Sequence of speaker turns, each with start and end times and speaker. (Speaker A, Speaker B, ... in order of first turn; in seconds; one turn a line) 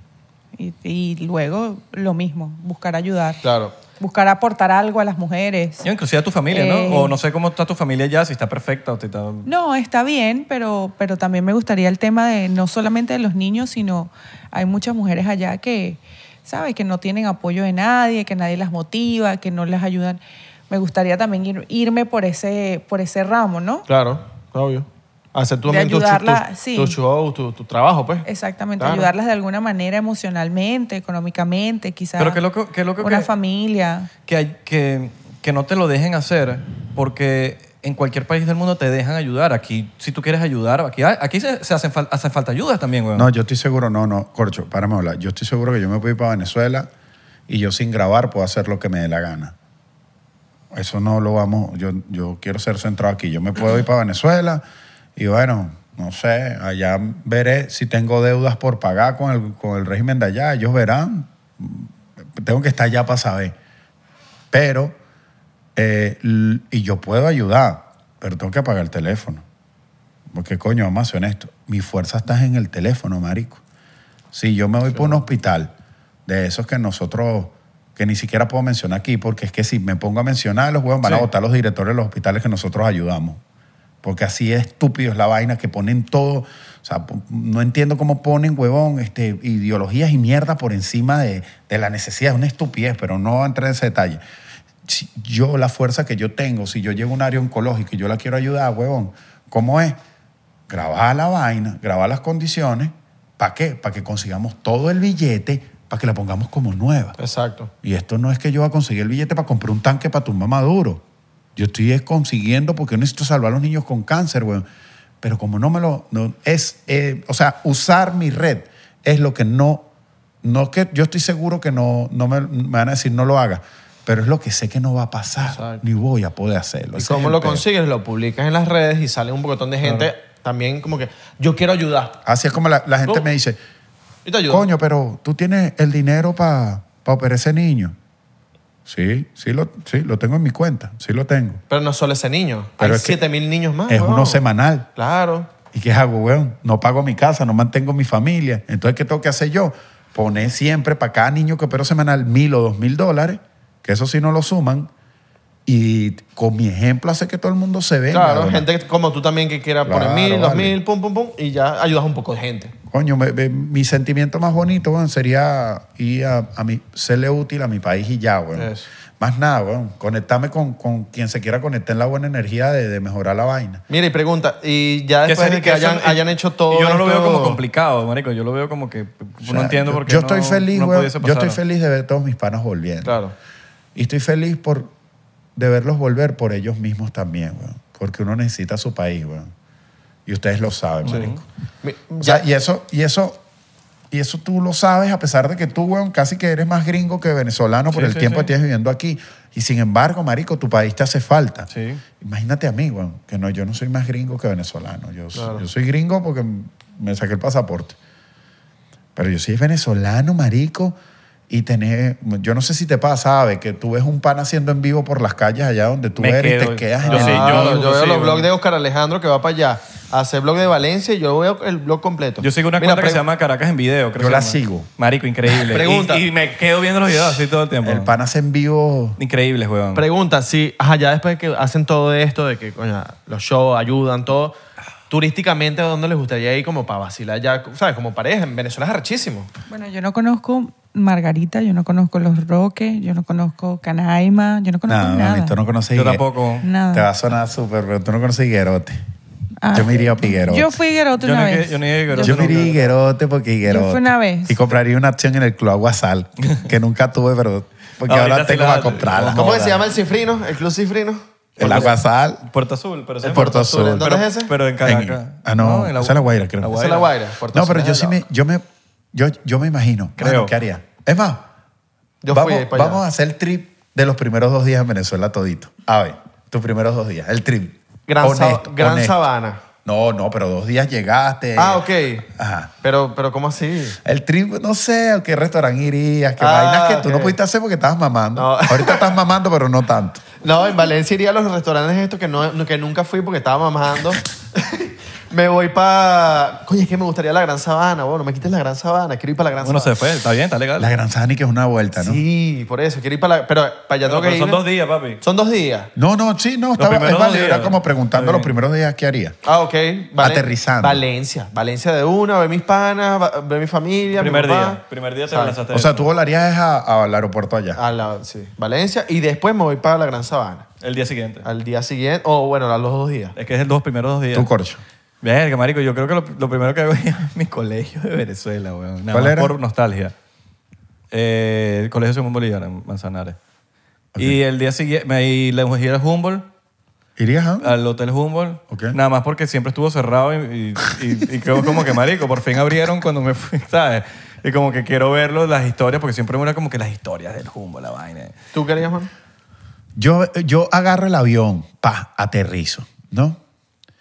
Speaker A: 0.5-3.4
Speaker B: 3.4-3.8
Speaker A: 4.0-5.8
Speaker C: 5.8-9.5
Speaker A: 6.5-7.2
Speaker A: 9.4-23.9
Speaker B: 23.9-28.2
Speaker A: 25.7-27.0
Speaker A: 28.2-32.4
Speaker B: 28.8-29.1
Speaker C: 32.2-33.3
Speaker A: 33.0-34.1
Speaker C: 34.3-43.3
Speaker D: 43.1-46.9
Speaker D: 47.5-49.5
Speaker D: 50.7-54.6
Speaker D: 55.1-63.5
Speaker D: 64.5-65.0
Speaker D: 65.8-69.4
Speaker D: 70.3-73.6
Speaker D: 74.3-75.7
Speaker B: 74.9-75.2
Speaker D: 76.2-83.4
Speaker D: 84.0-94.2
Speaker D: 94.8-100.0
Speaker D: 100.7-107.2
Speaker B: 107.2-107.7
Speaker D: 107.8-111.0
Speaker D: 111.5-114.6
Speaker D: 115.2-119.9
Speaker D: 120.4-127.6
Speaker B: 125.4-125.8
Speaker B: 126.9-132.2
Speaker C: 129.8-130.1
Speaker D: 132.2-133.6
Speaker B: 134.2-134.7
Speaker D: 134.5-137.9
Speaker D: 138.8-141.6
Speaker B: 141.7-144.4
Speaker D: 142.8-143.2
Speaker D: 143.9-144.9
Speaker B: 144.9-145.5
Speaker D: 145.7-154.9
Speaker D: 155.7-158.7
Speaker B: 158.1-162.7
Speaker D: 159.8-160.8
Speaker D: 162.9-173.8
Speaker B: 168.6-168.9
Speaker B: 173.9-177.6
Speaker C: 175.2-181.6
Speaker D: 179.4-183.1
Speaker B: 183.0-183.3
Speaker D: 183.9-184.9
Speaker D: 185.6-189.5
Speaker D: 190.2-191.4
Speaker C: 191.0-191.4
Speaker B: 191.8-192.4
Speaker D: 192.2-193.4
Speaker D: 194.1-201.7
Speaker C: 197.9-198.5
Speaker C: 201.7-202.0
Speaker D: 202.2-208.0
Speaker B: 205.3-205.7
Speaker D: 209.2-211.0
Speaker D: 211.5-217.8
Speaker C: 216.2-218.5
Speaker B: 217.1-223.2
Speaker C: 222.4-228.1
Speaker D: 224.2-224.9
Speaker B: 225.5-226.3
Speaker D: 227.8-229.2
Speaker C: 229.2-230.0
Speaker B: 229.9-234.6
Speaker B: 235.1-239.5
Speaker A: 239.7-245.6
Speaker D: 244.9-246.2
Speaker C: 245.9-246.7
Speaker A: 246.6-247.1
Speaker D: 246.9-249.0
Speaker A: 249.6-252.7
Speaker D: 249.7-250.8
Speaker C: 251.2-252.9
Speaker D: 252.2-259.6
Speaker A: 253.6-254.6
Speaker C: 258.0-259.9
Speaker B: 259.3-261.9
Speaker C: 261.6-261.9
Speaker D: 261.6-262.4
Speaker C: 262.5-267.1
Speaker B: 263.2-264.5
Speaker D: 263.3-264.1
Speaker D: 264.8-266.9
Speaker B: 266.7-268.2
Speaker D: 267.5-271.5
Speaker C: 270.2-270.5
Speaker B: 272.2-273.0
Speaker D: 272.3-279.2
Speaker B: 278.1-279.6
Speaker D: 279.8-282.7
Speaker B: 281.6-282.3
Speaker B: 282.8-284.0
Speaker D: 284.0-290.2
Speaker B: 286.4-287.4
Speaker B: 288.3-289.1
Speaker B: 290.4-299.9
Speaker C: 299.6-300.9
Speaker D: 300.8-302.2
Speaker B: 301.9-304.6
Speaker C: 304.0-305.2
Speaker B: 305.2-305.9
Speaker D: 305.9-309.3
Speaker C: 306.8-308.5
Speaker B: 309.4-315.6
Speaker D: 310.2-311.0
Speaker C: 314.1-316.1
Speaker D: 315.7-317.8
Speaker B: 317.7-320.7
Speaker C: 320.8-321.4
Speaker B: 321.4-323.4
Speaker C: 323.4-324.5
Speaker D: 324.3-324.8
Speaker C: 325.2-330.1
Speaker D: 329.1-329.5
Speaker C: 331.1-333.4
Speaker C: 334.2-336.5
Speaker D: 337.2-337.7
Speaker C: 337.6-348.3
Speaker D: 338.7-339.0
Speaker B: 348.5-349.1
Speaker D: 349.9-353.4